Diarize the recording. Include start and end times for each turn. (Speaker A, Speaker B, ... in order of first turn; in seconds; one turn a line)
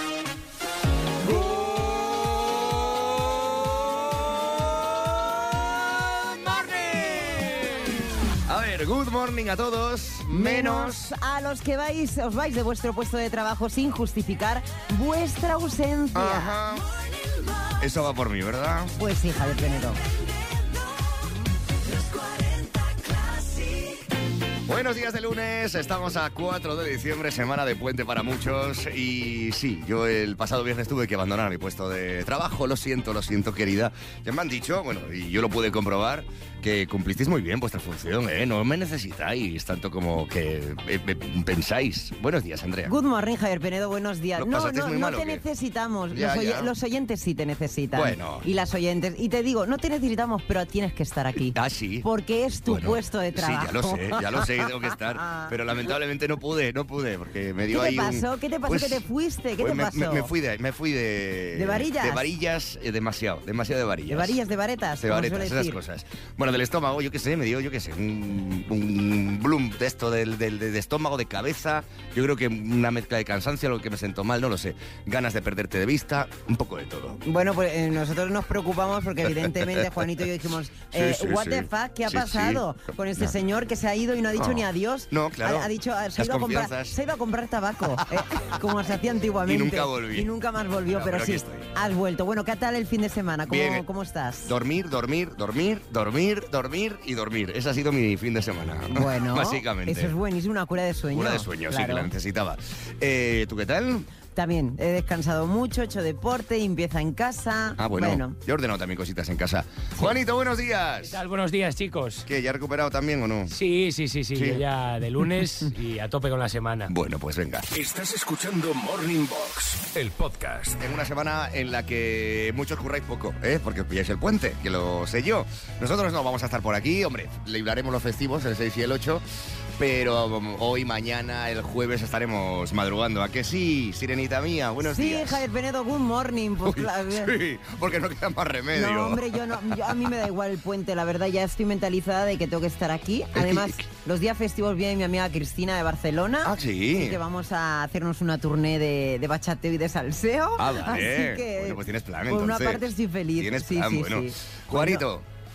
Speaker A: 1.2-4.0
Speaker A: 5.6-11.1
Speaker B: 10.3-16.6
Speaker A: 16.1-16.9
Speaker A: 17.8-18.9
Speaker B: 19.0-20.0
Speaker A: 24.7-42.9
Speaker B: 42.9-55.5
Speaker A: 44.4-45.4
Speaker A: 46.1-46.7
Speaker A: 47.9-48.5
Speaker A: 51.5-52.1
Speaker A: 52.7-59.0
Speaker B: 57.7-60.3
Speaker A: 59.6-64.4
Speaker B: 61.5-62.2
Speaker B: 64.1-65.8
Speaker A: 65.0-77.2
Speaker B: 77.2-94.5
Speaker A: 79.4-79.9
Speaker A: 80.9-82.6
Speaker A: 84.3-87.0
Speaker A: 88.1-90.3
Speaker A: 90.9-91.7
Speaker A: 93.5-93.8
Speaker A: 94.5-100.1
Speaker B: 98.9-102.1
Speaker A: 101.1-104.1
Speaker B: 104.3-108.4
Speaker A: 107.8-111.2
Speaker C: 111.0-112.3
Speaker A: 112.3-113.6
Speaker C: 113.5-116.9
Speaker A: 114.3-114.7
Speaker A: 116.9-117.7
Speaker D: 117.7-120.8
Speaker A: 120.8-129.2
Speaker A: 129.8-135.4
Speaker B: 134.8-137.4
Speaker A: 136.6-139.4
Speaker B: 138.7-155.1
Speaker A: 143.3-143.8
Speaker A: 146.4-147.2
Speaker A: 150.6-155.3